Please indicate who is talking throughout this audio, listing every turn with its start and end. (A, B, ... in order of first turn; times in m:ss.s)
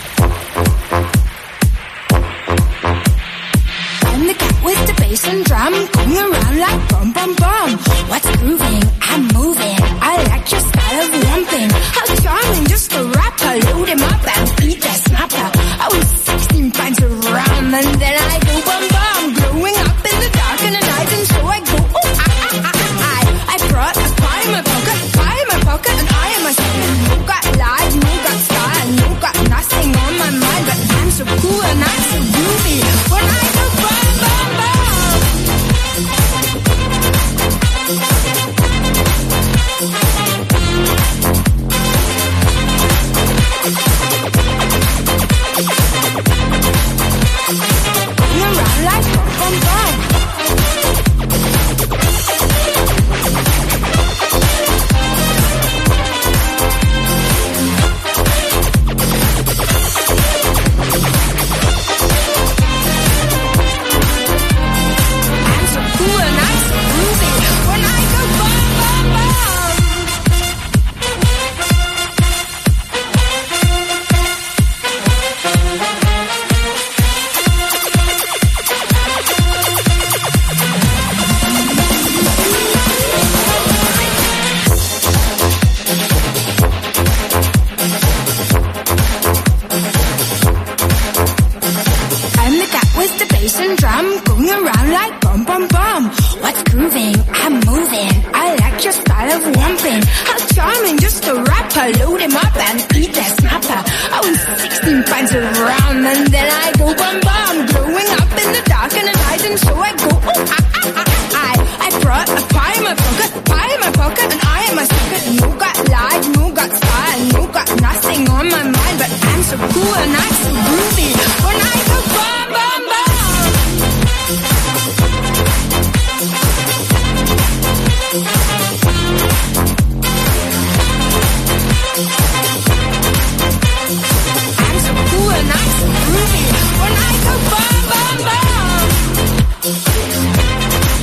0:04.0-0:35.3 A
0:48.2-0:50.0 A
1:05.4-1:10.1 A
1:32.4-2:03.7 A
2:14.6-2:19.2 A